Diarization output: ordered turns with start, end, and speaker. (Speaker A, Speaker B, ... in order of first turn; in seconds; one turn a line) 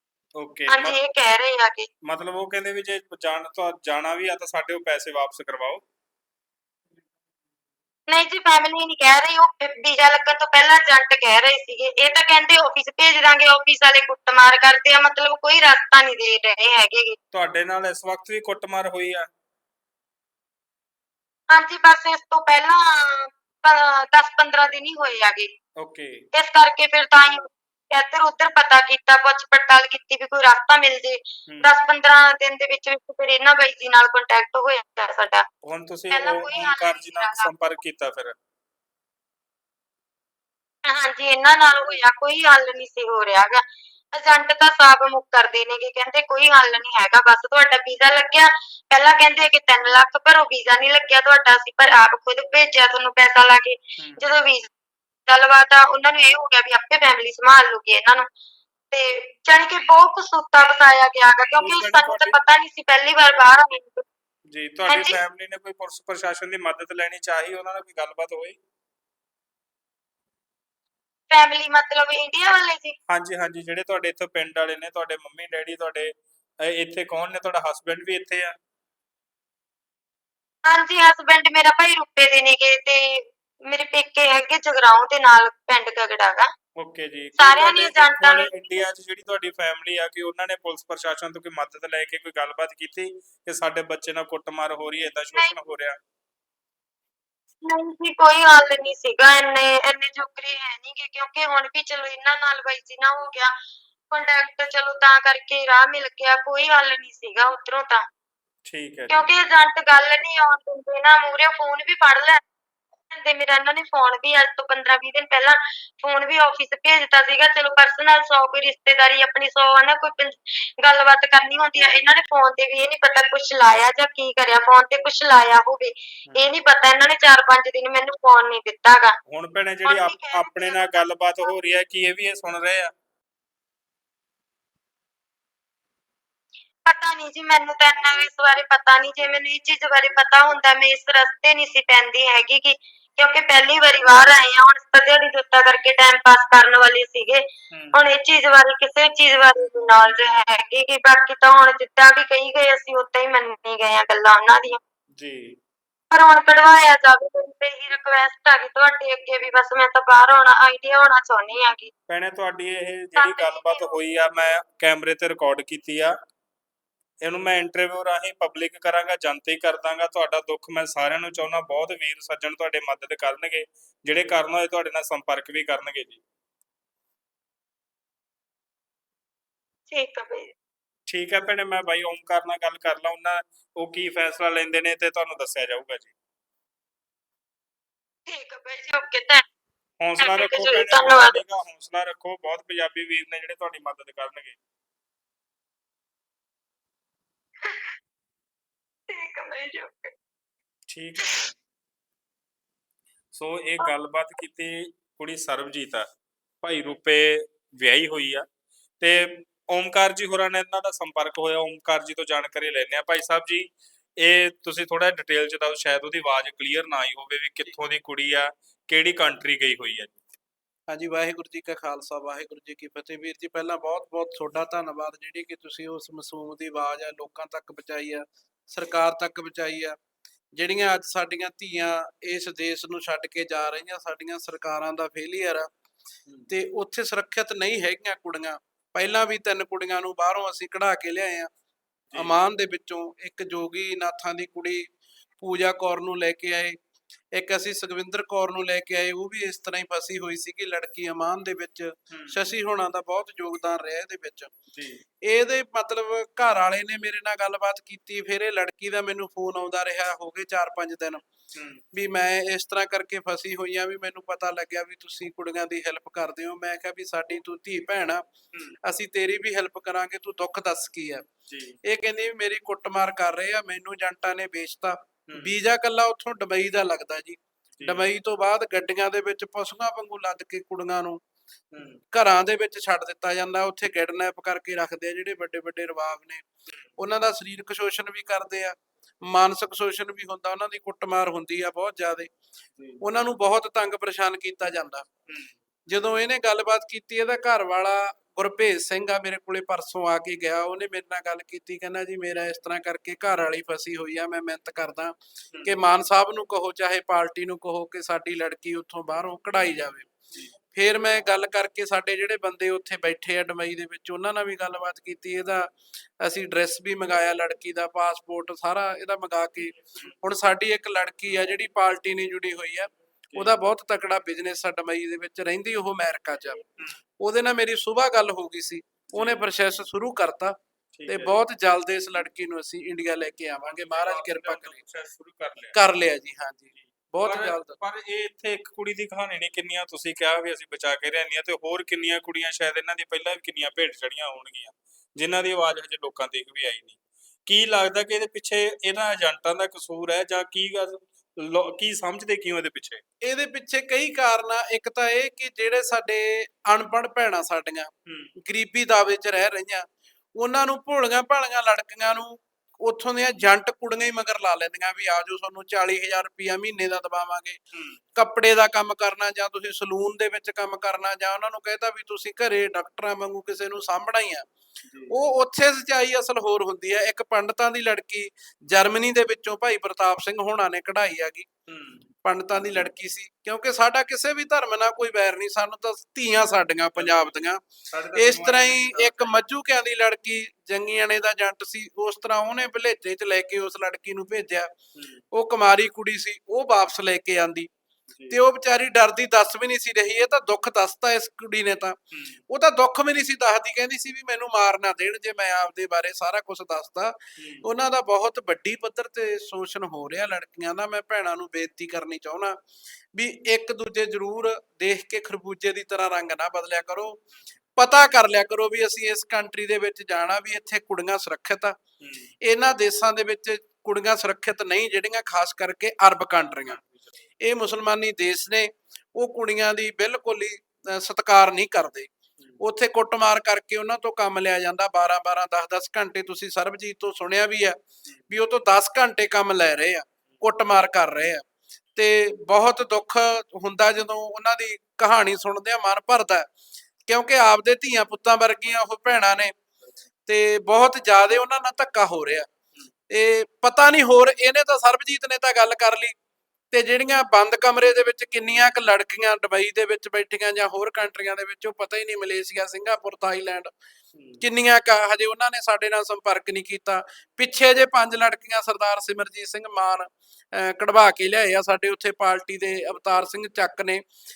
Speaker A: 0.4-1.0
Speaker B: 0.7-1.9
Speaker A: 2.1-5.8
Speaker B: 8.1-17.2
Speaker A: 17.3-19.2
Speaker B: 21.5-25.5
Speaker A: 25.8-26.1
Speaker B: 26.3-35.4
Speaker A: 31.5-31.7
Speaker A: 35.6-38.4
Speaker B: 36.1-37.6
Speaker B: 40.9-43.6
Speaker B: 44.1-54.7
Speaker A: 54.0-54.3
Speaker B: 55.3-58.2
Speaker B: 58.9-64.0
Speaker A: 61.6-62.4
Speaker A: 64.5-68.6
Speaker B: 64.9-65.2
Speaker B: 71.3-73.0
Speaker A: 73.1-76.1
Speaker A: 76.7-78.5
Speaker B: 80.7-86.5
Speaker A: 86.8-96.0
Speaker B: 87.4-88.8
Speaker B: 97.6-103.5
Speaker B: 104.1-108.0
Speaker A: 108.7-109.3
Speaker B: 109.1-112.4
Speaker B: 113.2-129.2
Speaker A: 129.3-132.9
Speaker B: 129.9-131.0
Speaker B: 136.9-147.4
Speaker A: 147.7-148.0
Speaker B: 147.9-154.8
Speaker A: 155.2-155.6
Speaker B: 156.1-161.9
Speaker A: 162.1-166.1
Speaker B: 163.2-163.9
Speaker A: 167.2-176.2
Speaker B: 179.9-180.5
Speaker A: 181.1-186.1
Speaker B: 188.3-189.4
Speaker A: 190.0-194.6
Speaker B: 190.2-191.4
Speaker B: 199.1-200.1
Speaker A: 200.9-201.5
Speaker A: 203.3-206.1
Speaker A: 206.6-208.4
Speaker A: 209.0-220.2
Speaker C: 220.9-230.0
Speaker C: 230.6-235.7
Speaker C: 236.5-241.5
Speaker C: 242.2-244.9
Speaker C: 245.4-246.8
Speaker C: 247.3-254.5
Speaker A: 252.1-252.5
Speaker A: 254.7-255.0
Speaker C: 255.3-261.2
Speaker A: 261.6-261.8
Speaker C: 261.9-268.2
Speaker C: 268.8-271.2
Speaker A: 271.5-271.8
Speaker C: 271.9-281.2
Speaker A: 275.3-275.5
Speaker A: 277.8-278.1
Speaker A: 281.7-282.0
Speaker C: 282.1-286.4
Speaker C: 287.0-288.8
Speaker C: 289.3-292.3
Speaker C: 293.0-295.1
Speaker C: 295.9-310.1
Speaker C: 310.7-326.6
Speaker C: 327.2-330.6
Speaker A: 329.1-329.5
Speaker A: 330.9-331.4
Speaker C: 331.1-334.8
Speaker A: 333.6-335.7
Speaker C: 335.7-337.8
Speaker A: 337.2-353.0
Speaker C: 353.2-359.9
Speaker A: 358.1-358.3
Speaker C: 360.4-367.6
Speaker C: 368.2-374.5
Speaker C: 375.1-381.5
Speaker A: 381.7-382.9
Speaker C: 382.2-387.6
Speaker A: 387.0-389.4
Speaker C: 388.1-394.7
Speaker A: 395.0-395.2
Speaker C: 395.3-397.7
Speaker A: 398.1-398.4
Speaker C: 398.3-402.0
Speaker A: 402.1-402.4
Speaker C: 402.5-412.6
Speaker A: 407.4-407.6
Speaker C: 413.1-417.2
Speaker C: 417.8-421.8
Speaker A: 422.0-422.3
Speaker C: 422.4-426.8
Speaker A: 426.5-426.9
Speaker C: 427.4-432.1
Speaker C: 432.6-437.8
Speaker C: 438.3-441.4
Speaker C: 442.0-446.5
Speaker C: 447.1-449.5
Speaker C: 450.3-452.5
Speaker C: 453.1-456.1
Speaker C: 456.7-463.7
Speaker A: 464.2-464.4
Speaker C: 464.4-474.0